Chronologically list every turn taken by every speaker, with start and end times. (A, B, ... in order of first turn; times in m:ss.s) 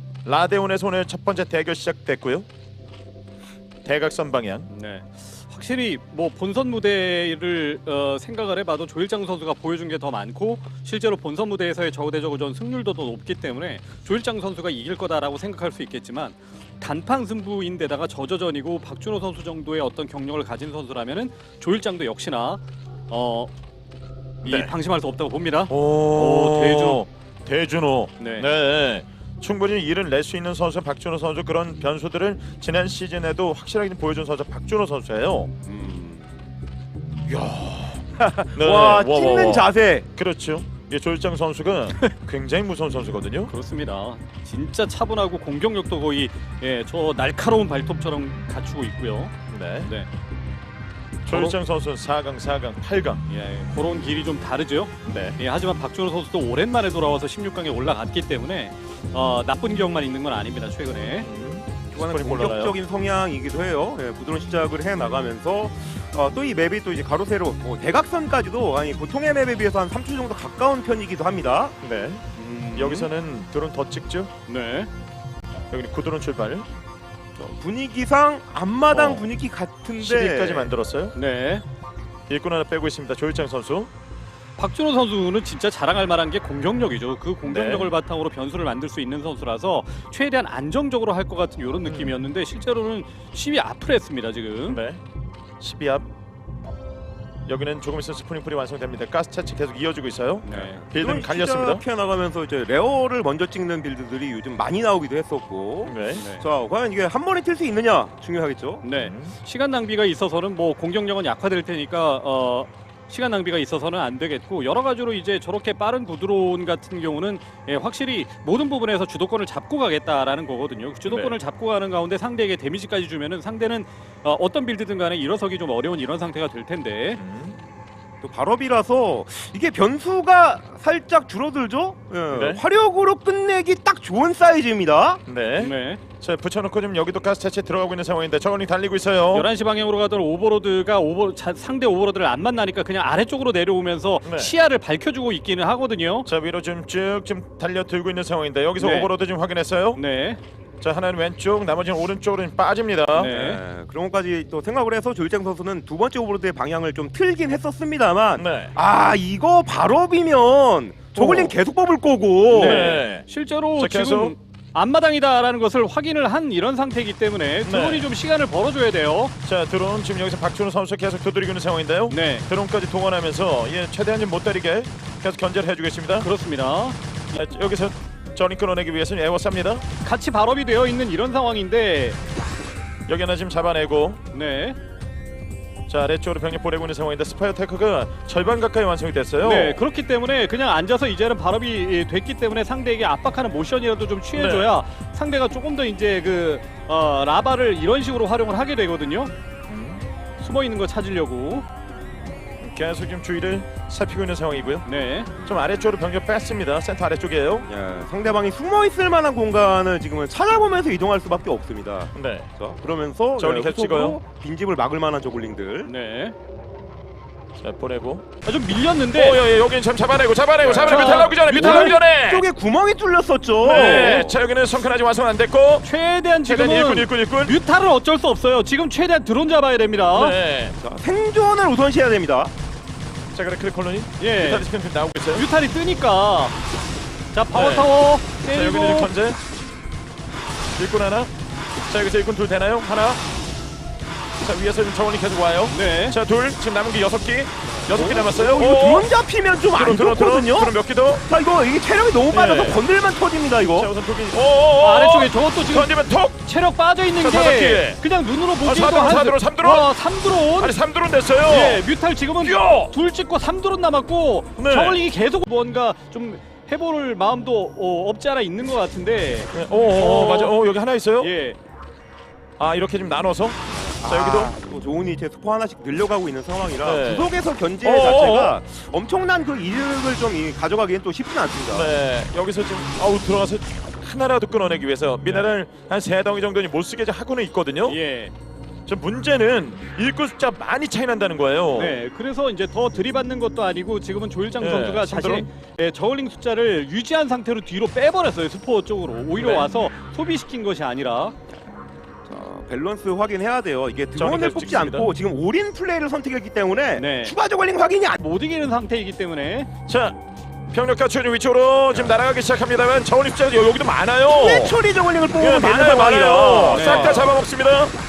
0:00.2-0:02.5 A
0:03.8-0:04.7 A
0:04.7-0:23.5 B
0:24.4-0:24.7 A
0:24.4-0:27.0 B
0:25.7-0:35.5 A
0:28.2-0:28.5 B
0:35.6-0:36.2 C
0:37.3-0:40.1 C
0:38.5-0:43.5 A
0:43.5-0:49.3 B
0:49.5-0:49.9 A
0:51.2-0:53.2 A
0:51.3-0:51.6 B
0:53.3-1:01.3 B
0:55.0-0:55.4 A
1:01.2-1:02.7 A
1:01.9-1:11.8 C
1:11.8-1:12.2 A
1:12.4-1:13.1 B
1:12.7-1:14.3 A
1:14.4-1:14.9 B
1:15.7-1:16.6 A
1:17.4-1:20.7 C
1:18.9-1:19.3 A
1:20.0-1:21.1 A
1:21.1-1:21.6 B
1:22.3-1:23.9 A
1:24.6-1:34.8 B
1:27.4-1:27.9 A
1:31.8-1:32.2 A
1:34.6-1:35.0 A
1:35.6-1:36.1 A
1:37.5-1:41.8 A
1:40.4-1:40.8 B
1:40.5-1:48.8 C
1:45.8-1:46.2 A
1:46.2-1:46.4 B
1:48.8-2:07.2 B
1:48.9-1:49.3 A
2:01.1-2:01.3 A
2:07.2-2:07.6 A
2:08.2-2:15.2 C
2:12.3-2:12.6 A
2:15.2-2:19.5 A
2:15.6-2:16.0 B
2:19.3-2:26.3 B
2:24.2-2:24.5 A
2:26.2-2:30.0 A
2:28.8-2:29.1 B
2:29.9-2:30.4 B
2:30.8-2:33.3 A
2:33.1-2:33.6 B
2:33.2-2:43.0 C
2:38.4-2:38.7 A
2:41.2-2:41.5 A
2:42.5-2:43.2 A
2:42.5-2:49.3 B
2:43.8-2:44.3 A
2:47.6-2:48.1 A
2:49.4-2:56.3 A
2:52.1-2:52.4 B
2:56.2-2:57.4 B
2:57.3-2:59.8 A
3:00.0-3:02.2 B
3:03.1-3:04.2 A
3:04.3-3:04.8 B
3:05.9-3:09.8 A
3:09.4-3:19.3 B
3:14.3-3:14.7 A
3:19.7-3:20.0 A
3:20.4-3:21.6 B
3:22.6-3:24.8 A
3:24.8-3:25.3 B
3:25.4-3:27.7 A
3:27.7-3:35.9 C
3:32.1-3:32.4 A
3:33.4-3:34.2 A
3:35.8-3:36.3 B
3:37.6-3:38.2 A
3:38.4-3:39.4 B
3:39.1-3:42.4 A
3:40.6-3:44.3 C
3:40.8-3:42.0 B
3:43.6-3:45.9 A
3:43.7-3:44.3 B
3:45.8-3:50.4 B
3:46.4-3:47.6 A
3:50.1-3:50.7 A
3:50.8-3:52.5 C
3:53.3-3:55.4 A
3:54.2-3:54.7 B
3:55.3-3:56.6 B
3:57.3-3:59.1 B
3:57.5-3:57.9 A
3:58.5-3:59.4 A
4:00.8-4:01.3 A
4:01.9-4:03.2 A
4:04.4-4:09.1 A
4:05.7-4:06.2 B
4:07.9-4:13.9 C
4:09.7-4:11.2 A
4:12.3-4:12.8 A
4:13.7-4:16.4 A
4:14.8-4:20.8 B
4:17.2-4:18.0 A
4:18.6-4:19.9 A
4:20.5-4:21.8 A
4:21.4-4:30.6 B
4:22.4-4:22.9 A
4:24.6-4:25.0 A
4:29.5-4:31.3 A
4:31.2-4:31.6 B
4:32.6-4:34.5 A
4:33.7-4:41.9 C
4:36.8-4:38.6 A
4:41.7-4:48.0 A
4:45.2-4:45.5 B
4:47.8-4:48.3 B
4:48.8-4:52.0 A
4:51.7-5:01.3 B
4:54.6-4:55.5 A
4:59.4-4:59.9 A
5:02.2-5:08.2 C
5:04.2-5:05.1 A
5:06.9-5:07.3 B
5:08.1-5:09.7 B
5:09.9-5:10.1 A
5:10.7-5:14.8 A
5:11.9-5:12.2 C
5:14.3-5:17.3 C
5:15.4-5:17.9 A
5:16.7-5:17.3 B